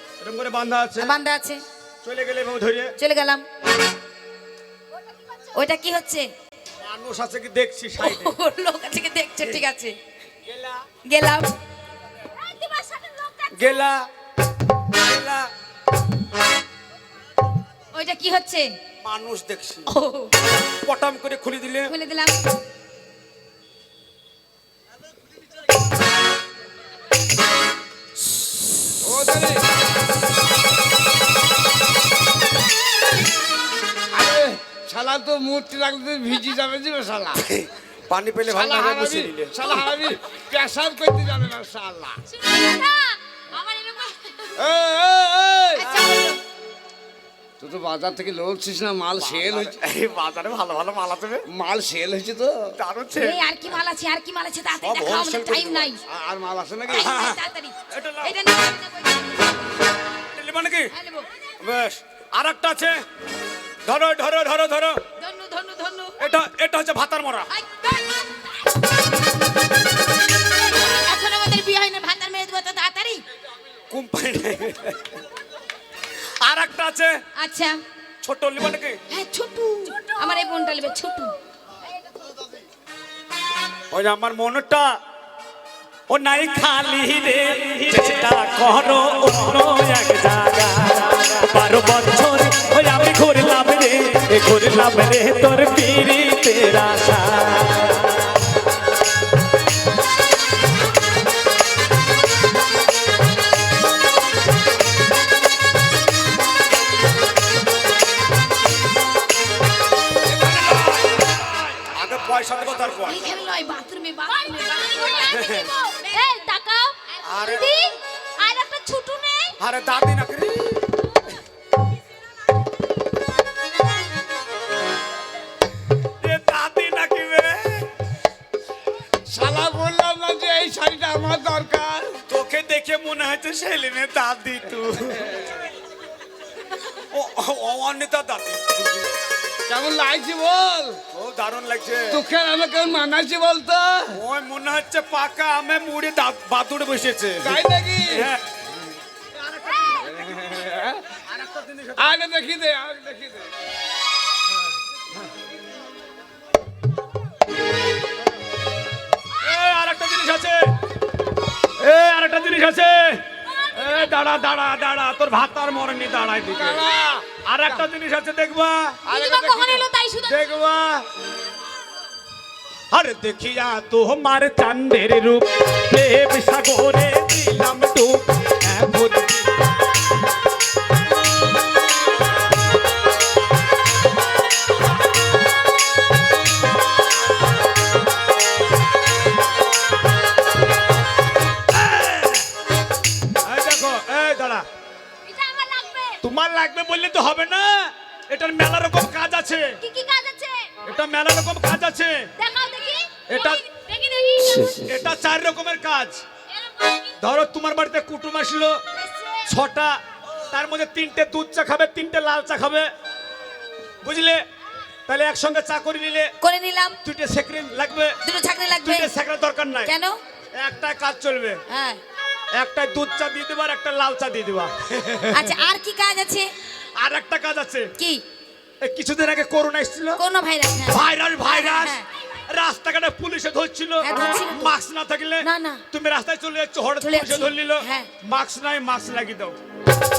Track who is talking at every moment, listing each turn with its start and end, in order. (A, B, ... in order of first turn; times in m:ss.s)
0:00.2-0:01.1 A
0:01.0-0:01.6 B
0:02.0-0:02.9 A
0:03.0-0:03.4 B
0:05.5-0:06.3 B
0:06.8-0:08.4 A
0:08.0-0:10.0 B
0:10.5-0:10.8 A
0:11.0-0:11.5 B
0:12.2-0:13.8 C
0:13.5-0:14.0 A
0:14.9-0:15.5 A
0:17.9-0:18.7 B
0:19.0-0:19.9 A
0:19.9-0:20.3 B
0:20.7-0:21.9 A
0:21.9-0:22.4 B
0:29.0-0:29.6 D
0:34.1-0:37.4 D
0:37.4-0:39.9 A
0:38.5-0:42.2 D
0:42.4-0:44.5 C
0:44.6-0:45.9 D
0:45.8-0:46.3 A
0:45.9-0:46.3 B
0:47.6-0:49.8 D
0:49.2-0:51.4 A
0:51.5-0:52.7 D
0:52.8-0:53.4 A
0:53.2-0:56.0 B
0:54.8-0:55.9 A
0:56.0-0:57.1 D
0:56.9-0:59.5 B
0:57.0-0:57.4 A
0:57.9-0:58.4 A
1:00.3-1:00.9 A
1:00.9-1:01.3 B
1:01.6-1:03.0 A
1:03.8-1:05.0 A
1:05.2-1:06.2 B
1:06.2-1:07.5 A
1:07.5-1:08.4 B
1:10.8-1:13.2 B
1:13.9-1:15.2 A
1:16.2-1:17.1 A
1:17.4-1:17.8 B
1:18.2-1:19.0 A
1:19.1-1:21.3 B
1:19.8-1:20.5 C
1:23.9-1:24.9 A
1:26.1-1:38.4 A
1:50.2-1:53.2 A
1:53.1-1:55.3 B
1:54.3-1:59.5 C
1:55.3-1:55.7 A
1:57.2-1:57.7 A
1:59.6-2:01.0 A
2:06.2-2:07.9 A
2:09.3-2:12.2 D
2:12.3-2:15.3 A
2:17.1-2:19.1 A
2:19.7-2:21.0 D
2:21.1-2:22.2 A
2:22.1-2:24.2 D
2:24.1-2:28.4 A
2:27.4-2:28.3 D
2:29.3-2:30.6 A
2:30.0-2:31.2 D
2:31.2-2:32.1 A
2:32.0-2:33.5 D
2:39.4-2:40.7 A
2:41.8-2:43.2 A
2:43.7-2:46.8 A
2:46.6-2:47.9 D
2:47.4-2:49.0 A
2:49.1-2:49.9 D
2:49.1-2:50.4 B
2:49.6-2:49.9 C
2:50.3-2:51.0 A
2:52.9-2:59.5 A
3:11.7-3:12.5 A
3:13.4-3:14.6 A
3:15.2-3:16.2 C
3:16.2-3:19.8 A
3:19.8-3:20.7 C
3:20.8-3:22.3 A
3:22.4-3:24.8 C
3:23.3-3:23.6 A
3:24.7-3:26.2 A
3:26.5-3:27.1 C
3:27.2-3:28.8 A
3:29.5-3:30.0 A
3:30.5-3:32.9 A
3:34.0-3:34.4 A
3:35.1-3:36.3 A
3:36.4-3:37.0 B
3:37.0-3:38.1 A
3:38.2-3:39.1 B
3:38.8-3:39.9 A
3:39.8-3:40.2 B
3:40.6-3:41.6 A
3:41.7-3:42.0 B
3:42.5-3:45.5 A
3:45.3-3:46.5 B
3:47.0-3:47.9 A
3:48.8-3:50.2 A
3:50.2-3:52.0 B
3:50.9-3:59.6 A
3:54.0-3:54.7 B
3:55.4-3:55.8 B
3:57.0-3:58.1 B